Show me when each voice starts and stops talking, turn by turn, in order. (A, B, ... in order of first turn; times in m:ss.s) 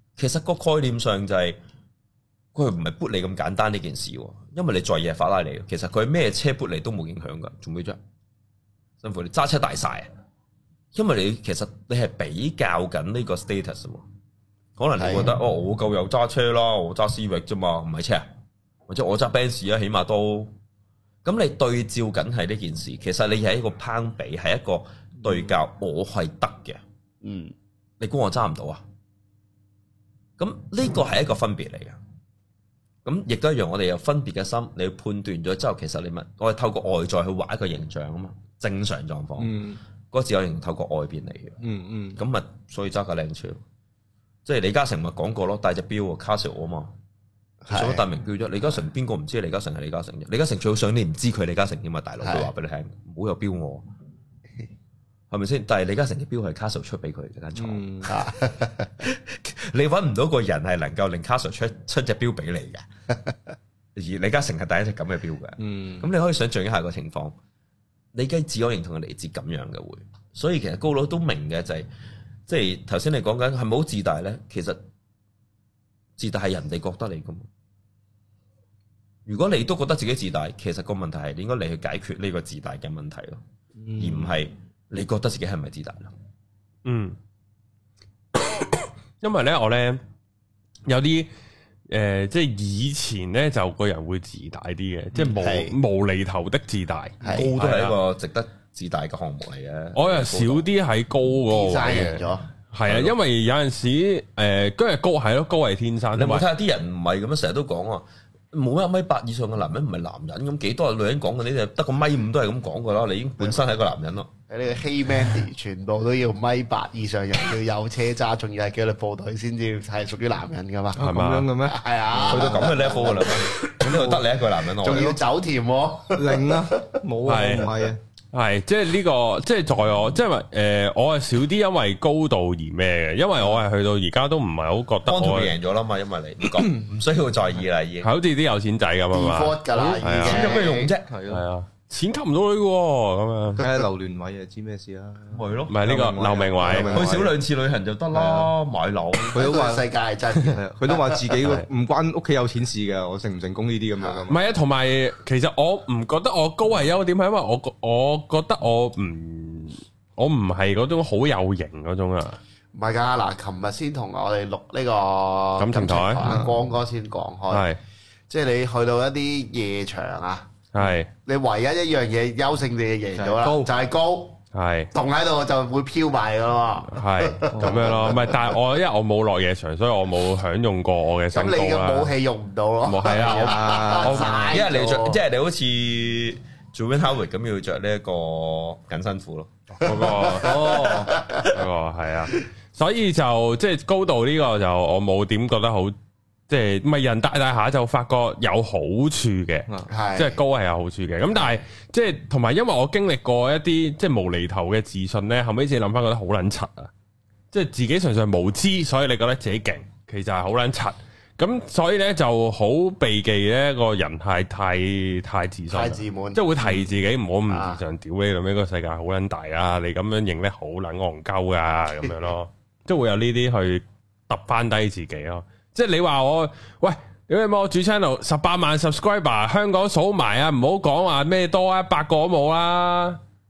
0:00.2-0:01.6 A
0:02.6-0:08.0 A
0:09.0-0:10.1 A
0:10.9-0:14.0 A
0:14.8-0:18.3 A
0:15.0-0:15.3 B
0:18.9-0:20.5 A
0:21.2-0:26.8 A
0:27.2-0:27.5 B
0:28.0-0:28.8 A
0:30.4-0:32.0 A
0:33.0-0:39.6 A
0:39.4-0:39.8 C
0:40.1-0:41.6 A
0:41.6-0:42.2 C
0:42.2-0:43.6 A
0:44.4-0:46.9 A
0:47.6-0:48.0 B
0:47.7-0:53.9 A
0:52.2-0:52.5 B
0:55.3-0:58.3 A
0:57.6-0:58.2 C
0:58.1-0:59.1 B
0:59.0-1:02.9 A
1:04.0-1:07.4 A
1:05.6-1:06.1 C
1:08.1-1:11.9 A
1:12.5-1:14.8 A
1:16.2-1:17.5 A
1:19.3-1:23.4 A
1:23.8-1:24.4 C
1:24.0-1:26.1 A
1:26.8-1:27.2 D
1:28.6-1:30.0 D
1:30.9-1:31.3 D
1:31.9-1:38.0 D
1:35.3-1:35.8 B
1:37.2-1:37.5 B
1:37.2-1:40.7 A
1:40.0-1:46.4 D
1:41.5-1:42.5 B
1:42.9-1:43.2 A
1:46.2-1:54.3 A
1:54.5-2:01.0 B
2:01.0-2:03.0 C
2:01.0-2:01.5 D
2:01.6-2:04.1 B
2:02.2-2:05.2 A
2:03.8-2:04.2 C
2:04.8-2:07.0 B
2:06.2-2:08.0 C
2:07.2-2:07.7 D
2:08.3-2:15.6 D
2:15.1-2:18.1 A
2:18.0-2:20.4 D
2:19.1-2:20.9 B
2:20.2-2:21.2 A
2:21.1-2:21.4 C
2:21.3-2:23.7 D
2:23.6-2:27.4 C
2:25.3-2:25.8 A
2:25.7-2:27.1 D
2:26.7-2:29.5 A
2:28.2-2:28.5 C
2:29.3-2:31.2 B
2:29.3-2:29.8 C
2:30.5-2:34.4 C
2:34.3-2:42.4 D
2:42.7-2:47.7 B
2:45.6-2:46.3 D
2:46.2-2:46.6 C
2:47.5-2:47.8 D
2:48.3-2:50.5 B
2:50.7-2:51.1 D
2:51.2-2:54.4 B
2:53.2-2:53.7 C
2:54.5-2:54.9 D
2:54.9-2:58.6 B
2:56.9-3:02.1 D
2:57.5-2:58.1 C
3:01.3-3:05.2 B
3:02.8-3:04.5 D
3:03.2-3:04.5 C
3:04.5-3:09.5 A
3:09.8-3:10.8 D
3:09.8-3:11.5 B
3:10.4-3:11.2 C
3:11.4-3:16.0 D
3:16.5-3:26.9 D
3:19.9-3:20.4 B
3:27.5-3:53.2 D
3:35.7-3:36.4 B
3:37.5-3:37.8 B